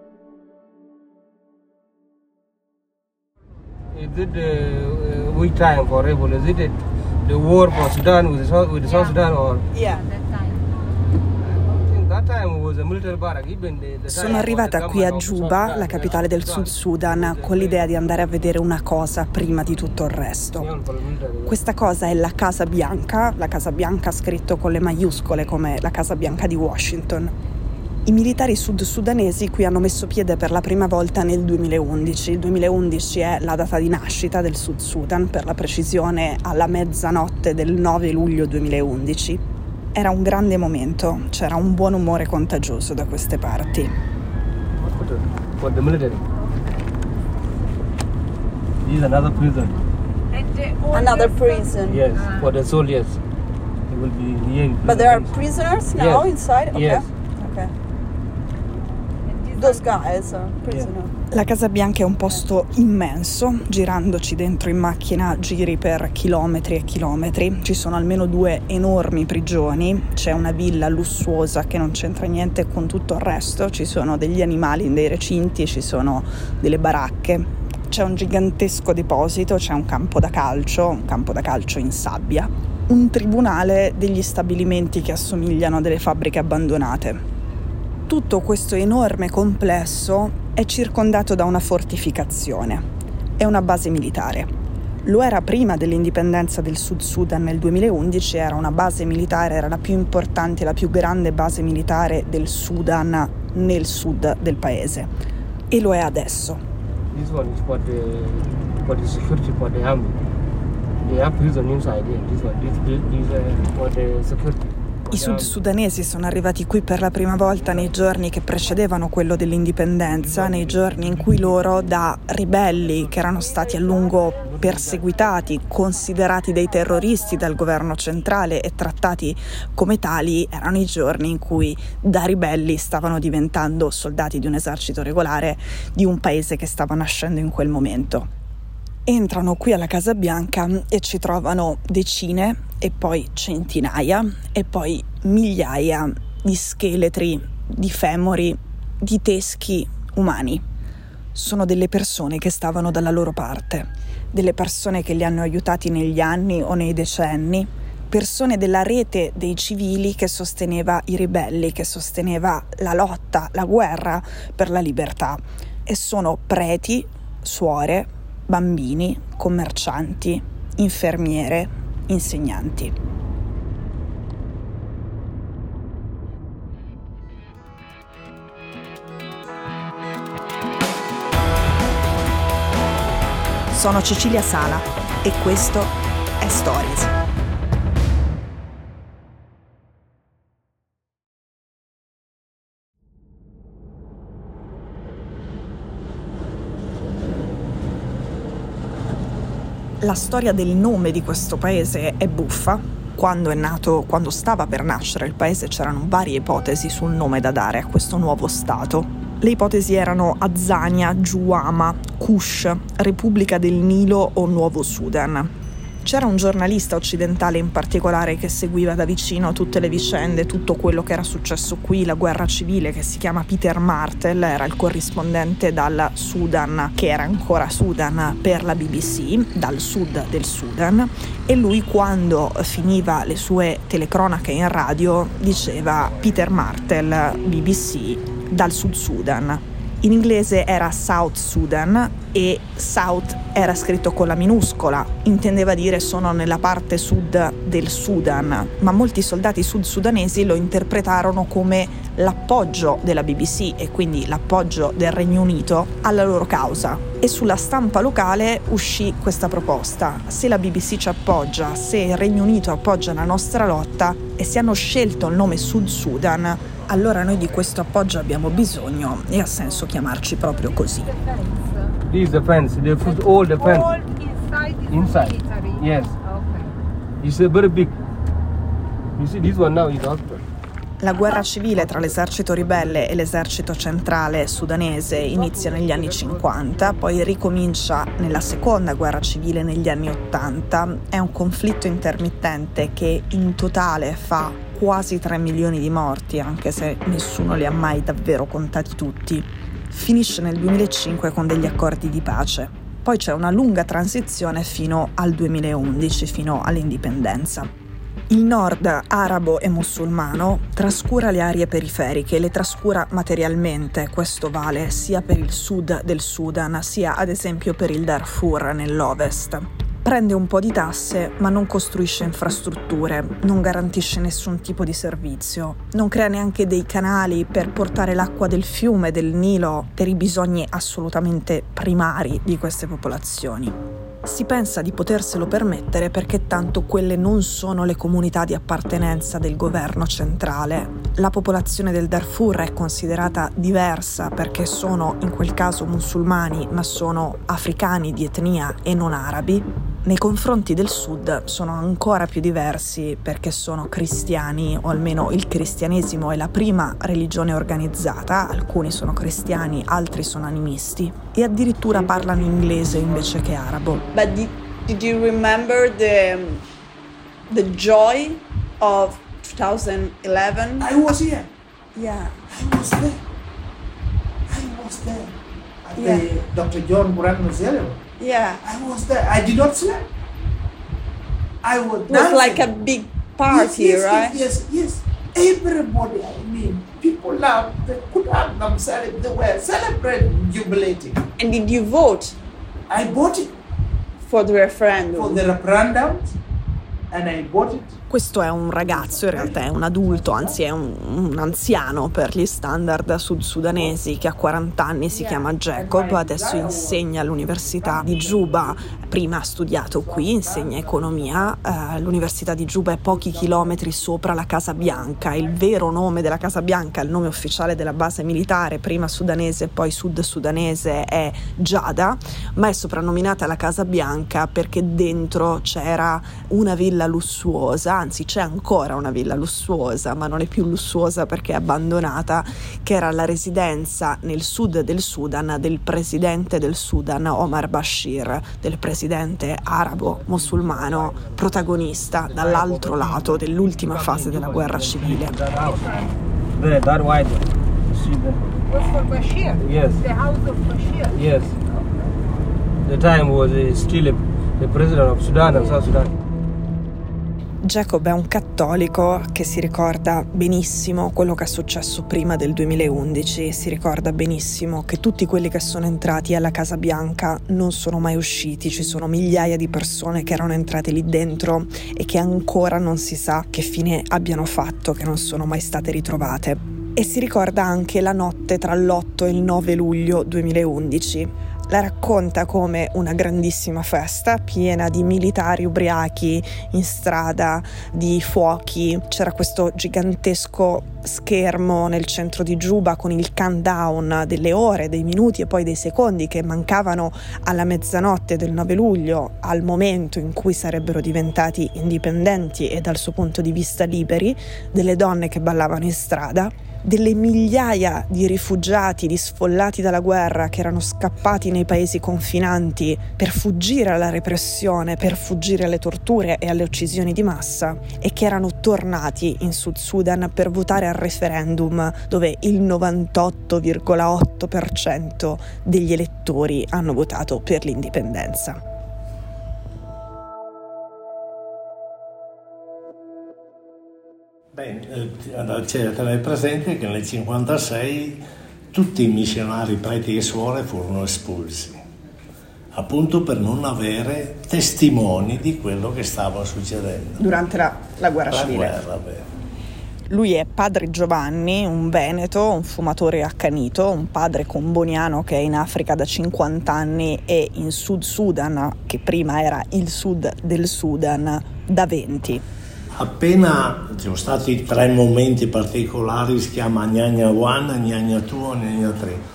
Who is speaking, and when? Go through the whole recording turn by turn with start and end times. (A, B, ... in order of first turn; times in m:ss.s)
0:03.9-0:09.7 A
0:11.6-0:18.1 A
0:14.1-0:20.7 B
0:20.6-0:21.6 A
0:21.4-0:27.3 B
0:28.1-0:39.4 B
0:39.9-0:43.9 B
0:44.8-0:46.2 A
0:48.8-0:49.8 A
0:50.3-0:51.7 C
0:50.9-0:52.0 D
0:51.8-0:53.2 A
0:53.9-0:55.4 A
0:54.8-0:57.7 D
0:56.0-0:57.0 A
0:59.5-0:59.8 C
0:59.5-1:01.1 D
1:01.3-1:27.2 B
1:28.1-1:32.8 B
1:33.4-1:34.5 B
1:35.0-1:45.1 B
1:45.7-1:46.6 B
1:47.1-1:50.2 A
1:51.0-1:55.6 A
1:55.1-2:18.3 B
1:57.4-1:58.1 A
2:00.1-2:01.5 A
2:04.4-2:05.2 A
2:19.1-2:30.6 B
2:31.3-2:52.9 B
3:03.7-3:07.1 B
3:20.0-3:35.5 B
3:36.0-4:31.1 B
4:30.9-4:31.9 C
4:32.1-4:33.9 A
4:33.3-4:36.7 C
4:34.9-4:36.2 A
4:37.2-4:37.9 A
4:39.1-4:40.4 A
4:41.0-5:07.7 B
4:41.7-4:43.1 A
4:45.1-4:47.3 A
5:08.3-6:04.0 B
6:04.1-6:06.6 D
6:07.5-6:10.9 D
6:10.8-6:11.5 E
6:12.0-6:12.4 D
6:12.5-6:13.2 E
6:14.5-6:18.0 E
6:16.0-6:16.3 D
6:18.2-6:18.6 D
6:18.6-6:20.1 E
6:21.6-6:22.6 E
6:22.1-6:24.4 D
6:23.4-6:31.2 E
6:31.4-6:32.4 D
6:32.9-6:33.5 E
6:34.3-6:35.4 D
6:35.1-6:36.3 E
6:37.1-6:37.9 E
6:38.1-7:25.4 B
6:39.0-6:39.5 E
6:45.8-6:46.9 E
6:47.8-6:48.1 E
7:19.8-7:21.7 A
7:22.3-7:25.9 A
7:26.5-7:28.4 A
7:28.7-7:31.2 C
7:29.6-7:30.1 A
7:31.1-7:31.6 A
7:32.8-7:36.2 A
7:37.6-8:48.6 B
8:54.5-8:58.2 F
8:58.7-9:01.8 F
9:02.7-9:07.2 F
9:07.2-9:08.8 B
9:08.3-9:09.3 F
9:10.1-9:22.4 B
9:23.0-9:29.2 F